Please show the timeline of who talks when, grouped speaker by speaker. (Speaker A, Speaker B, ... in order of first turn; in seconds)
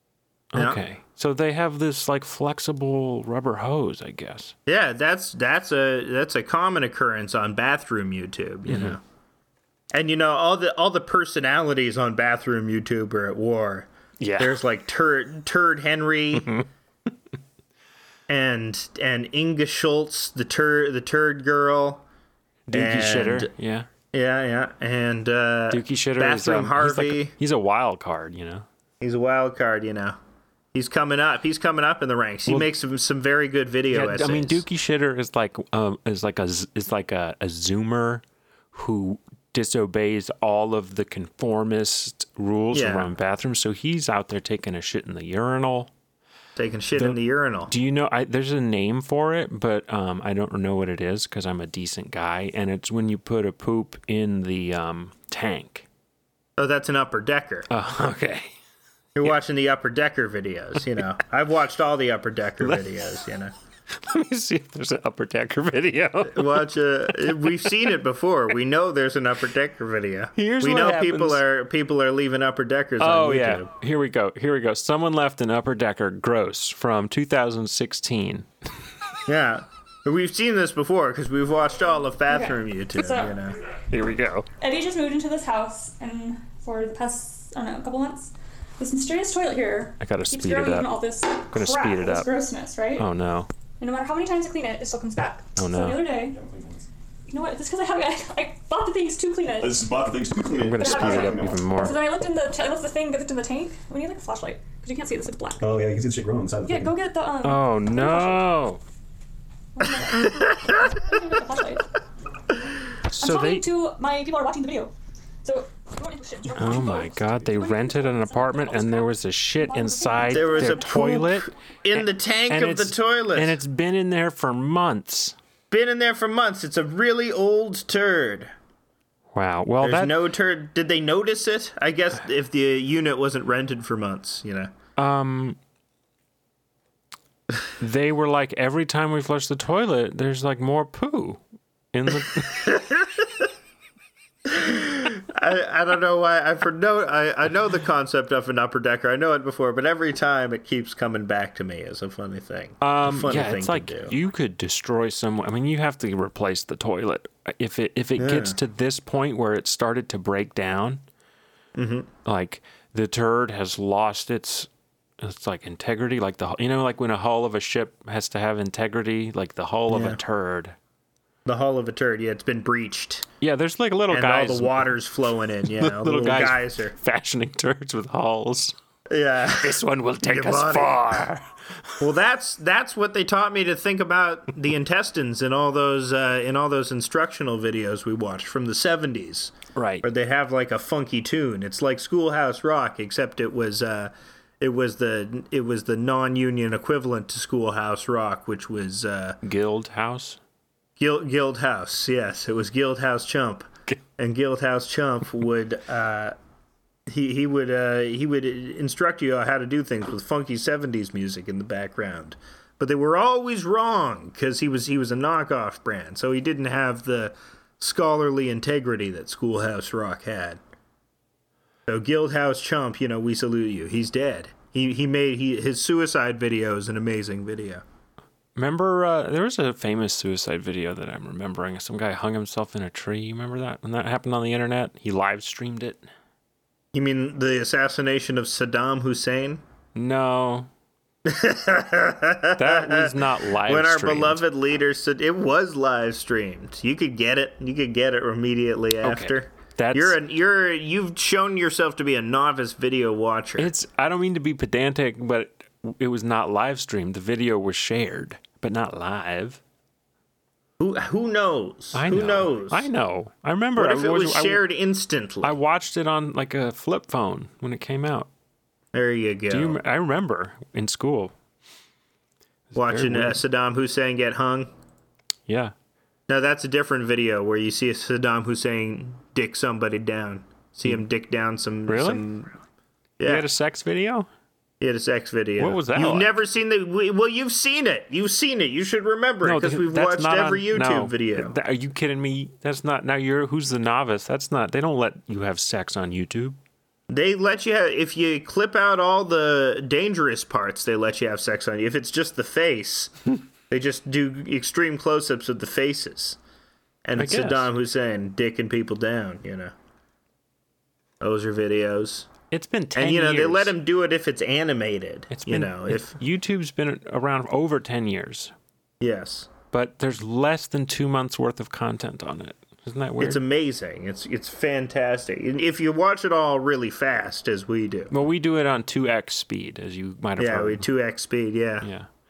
Speaker A: 0.5-4.5, 8.7-9.0, 14.2-14.6, 16.4-16.7, 22.7-23.9, 25.7-28.7, 33.9-38.2, 38.7-45.9, 47.0-55.9, 57.7-58.5, 63.9-67.5, 70.4-71.4, 73.0-78.5, 83.9-84.5, 90.0-90.9, 91.5-92.3, 93.0-93.5, 95.6-96.0, 100.6-102.0, 107.4-108.8, 113.1-113.7, 116.5-125.4, 129.3-130.2, 135.0-135.6, 137.8-141.4, 141.9-142.8, 152.8-161.0, 162.2-164.7, 165.2-170.8, 173.4-174.9, 175.7-178.7, 179.5-182.0, 189.8-190.1, 199.4-200.4, 228.6-236.1, 239.9-240.7, 242.6-244.4, 249.0-250.2, 253.6-259.6, 261.9-264.6, 265.4-268.3, 269.5-271.3, 272.7-273.4, 275.5-275.7, 281.9-282.2, 283.2-284.3, 285.6-286.3, 289.4-296.6, 307.2-307.7, 312.5-313.7, 315.3-318.5, 319.7-323.4, 328.1-330.9, 331.8-332.1
Speaker B: 0.6-0.8, 4.7-9.0, 9.9-13.9, 14.4-16.5, 18.3-22.0, 22.7-23.5, 24.1-27.3, 29.0-30.2, 30.7-34.6, 42.7-43.1, 46.6-47.7, 56.6-57.7, 59.2-63.5, 66.3-73.7, 79.3-83.6, 110.3-110.8, 120.3-123.6, 125.7-128.5, 129.8-134.7, 142.3-143.5, 144.5-154.1, 158.2-158.6, 161.8-162.1, 169.9-170.2, 171.4-173.3, 174.1-176.9, 179.1-181.3, 182.0-199.4, 201.0-206.3, 207.1-220.6, 221.9-227.8, 236.9-239.6, 241.2-253.7, 260.8-262.9, 263.8-265.6, 268.9-269.8, 272.8-274.7, 276.3-282.5, 283.2-283.5, 284.8-291.6, 297.1-303.2, 303.7-306.4, 307.1-309.7, 311.2-312.3, 312.9-316.2, 319.0-319.5, 323.2-328.1, 330.4-331.9
Speaker C: 82.3-83.4, 84.6-93.1, 93.8-96.4, 97.3-99.8, 100.8-105.7, 106.7-108.5, 109.8-111.9, 113.1-120.9
Speaker D: 96.2-96.9, 99.6-101.7, 105.6-107.0